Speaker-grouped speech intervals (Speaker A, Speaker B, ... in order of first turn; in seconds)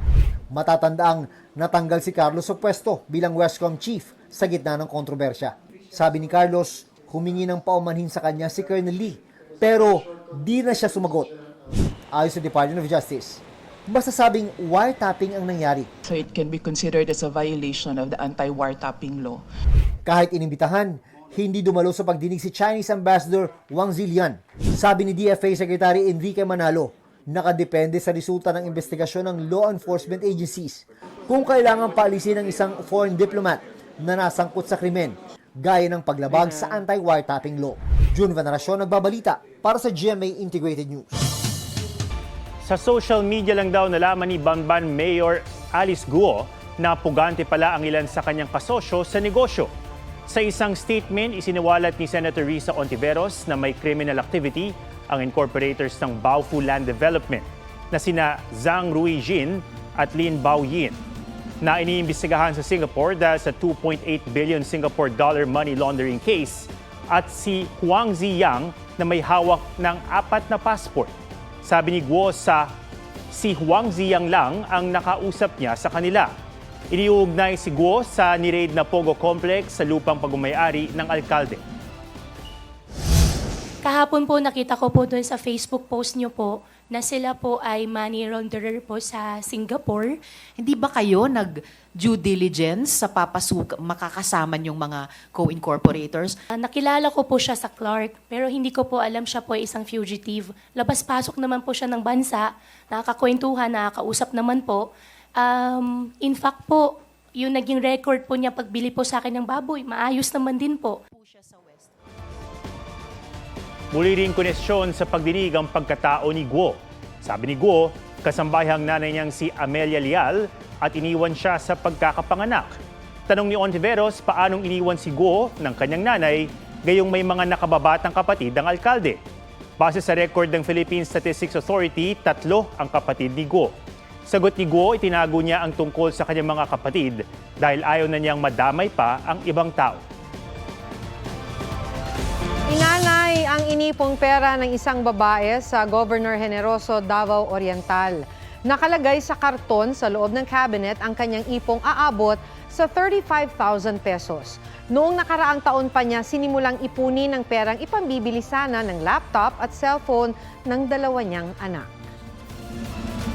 Speaker A: 0.5-11.3, 12.1-15.9, 20.1-41.2
Speaker B: 16.1-19.4
Speaker C: 42.6-49.7, 50.3-61.0, 61.6-71.1, 71.6-72.7, 73.3-76.3, 76.9-81.6, 113.9-122.7, 123.3-129.2, 129.8-133.7, 134.3-140.0
Speaker D: 83.8-90.2, 96.5-111.0
Speaker E: 90.6-96.3
Speaker F: 142.7-161.9